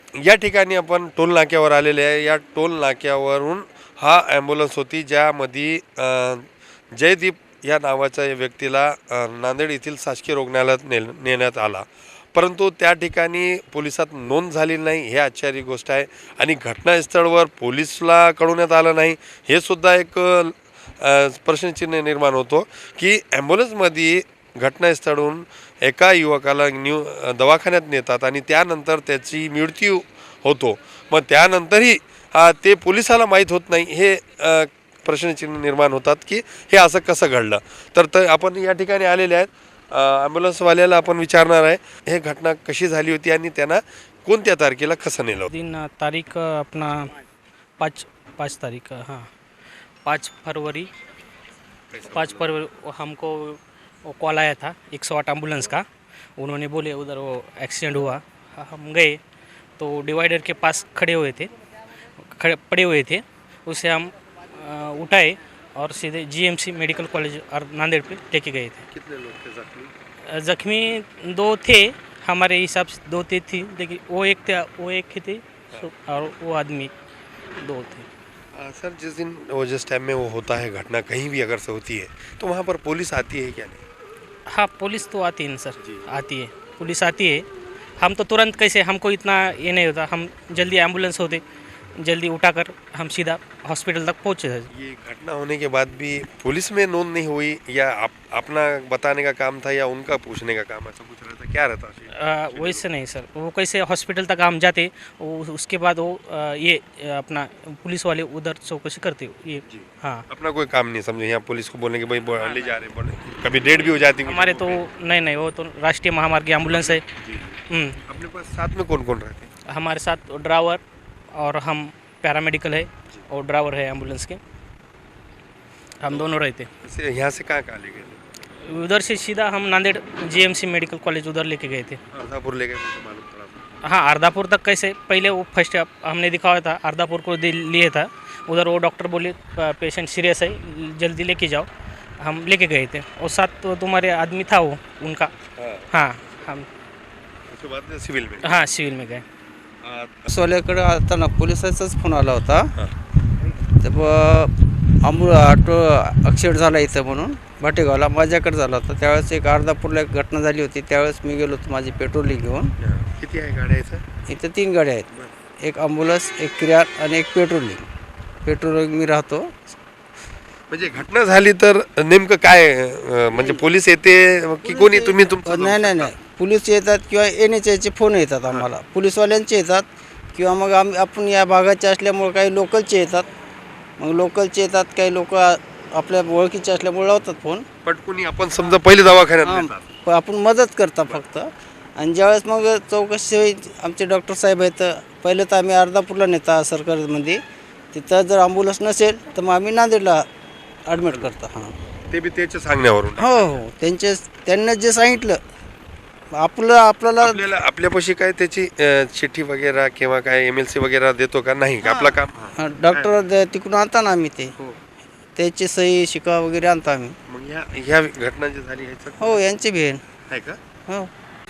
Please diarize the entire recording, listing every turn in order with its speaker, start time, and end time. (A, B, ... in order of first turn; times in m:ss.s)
0:00.2-0:45.5 A
0:45.5-0:47.1 B
0:47.8-0:49.3 B
0:50.0-0:50.9 B
0:51.9-0:52.4 A
0:52.1-0:55.9 B
0:56.4-0:59.2 B
0:59.8-1:01.5 B
1:02.3-1:08.8 B
1:08.9-1:09.9 A
1:10.3-1:16.9 B
1:17.6-1:18.1 B
1:18.6-1:23.8 A
1:24.5-1:27.5 B
1:25.8-1:26.1 A
1:28.0-1:31.4 B
1:32.0-1:34.7 B
1:34.7-1:42.8 A
1:42.2-1:50.2 B
1:49.7-1:54.8 A
1:52.4-1:52.7 B
1:53.6-1:57.0 B
1:56.6-1:59.5 A
1:57.7-1:58.0 B
1:59.7-2:00.8 B
2:01.4-2:04.4 B
2:06.0-2:06.7 B
2:06.1-2:08.2 A
2:08.7-2:12.0 B
2:12.1-2:13.6 A
2:13.9-2:21.7 B
2:22.2-2:25.3 B
2:25.6-2:25.9 A
2:25.9-2:26.7 B
2:27.5-2:28.5 A
2:28.4-2:29.2 B
2:29.8-2:30.3 A
2:30.3-2:32.7 C
2:33.8-2:42.7 C
2:42.8-2:44.0 A
2:44.3-2:45.1 C
2:45.1-2:45.4 A
2:45.6-2:47.9 C
2:48.4-2:49.7 C
2:50.7-2:56.2 A
2:53.3-2:53.7 C
2:54.6-3:03.3 C
3:04.0-3:07.7 C
3:07.8-3:10.0 A
3:09.4-3:17.4 C
3:17.9-3:20.2 C
3:20.9-3:21.7 C
3:20.9-3:21.3 A
3:22.1-3:23.6 A
3:23.1-3:25.4 C
3:26.4-3:27.5 C
3:27.2-3:33.1 A
3:31.8-3:34.6 C
3:35.4-3:37.1 C
3:37.3-3:39.5 A
3:39.2-3:40.0 C
3:40.3-3:40.6 A